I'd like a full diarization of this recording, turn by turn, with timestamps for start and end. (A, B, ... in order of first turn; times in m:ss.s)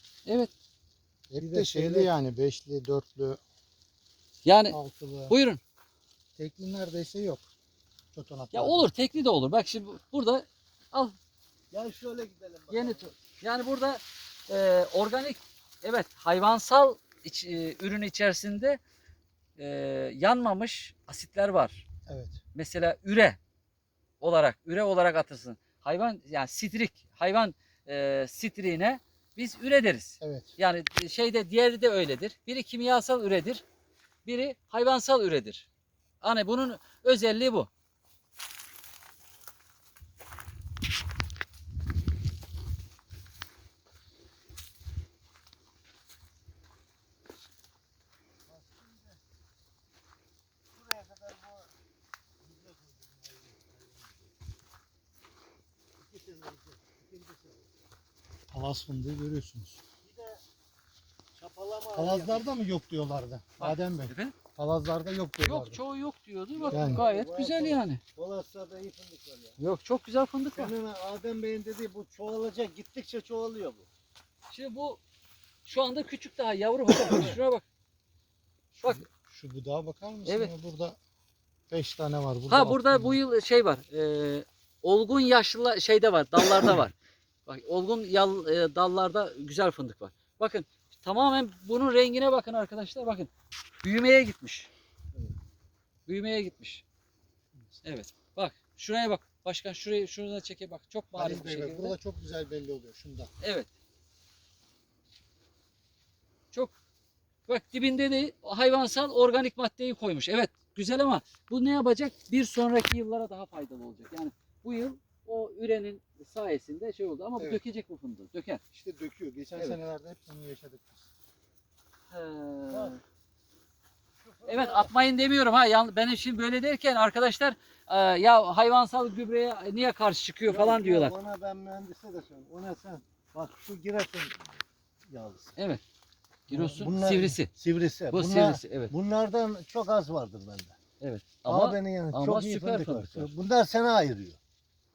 0:00.2-0:00.5 A
0:01.3-0:03.4 B
0:01.4-0:02.1 C
0:04.4-0:04.8 A
0:04.7-0:05.3 B
0:05.3-0:05.6 A
0:06.4-0:07.5 B
0:08.1-0:08.9 B
0:08.5-0:11.2 A
0:11.7-0:13.1 C
0:12.7-0:18.8 A
0:19.6-0:21.8 A
0:22.1-0:22.4 B
0:22.5-0:23.4 A
0:24.2-0:33.6 A
0:30.2-0:30.5 B
0:34.2-0:35.7 A
0:36.2-0:37.7 A
0:48.4-0:49.2 C
0:50.7-0:51.7 C
0:52.4-0:54.3 C
0:56.0-0:57.8 C
0:58.5-0:59.8 B
1:00.0-1:00.4 C
1:01.3-1:02.5 C
1:01.9-1:05.8 B
1:03.6-1:04.4 A
1:05.4-1:08.0 A
1:06.5-1:09.6 C
1:06.7-1:07.0 B
1:09.6-1:10.7 A
1:10.5-1:13.9 C
1:14.5-1:15.0 A
1:15.6-1:17.6 A
1:18.8-1:21.0 B
1:20.2-1:20.5 A
1:21.7-1:23.2 B
1:22.5-1:26.9 A
1:27.4-1:33.3 A
1:33.8-1:34.7 A
1:36.1-1:36.8 A
1:37.8-1:41.9 A
1:41.1-1:43.3 B
1:43.4-1:43.7 A
1:47.5-1:58.6 A
1:58.7-2:01.1 B
2:02.1-2:03.0 A
2:02.7-2:03.0 C
2:04.2-2:04.9 C
2:04.4-2:11.1 A
2:10.5-2:14.5 C
2:15.1-2:15.6 C
2:16.5-2:17.5 A
2:16.5-2:20.8 C
2:18.1-2:18.9 A
2:21.0-2:23.3 A
2:21.4-2:24.4 C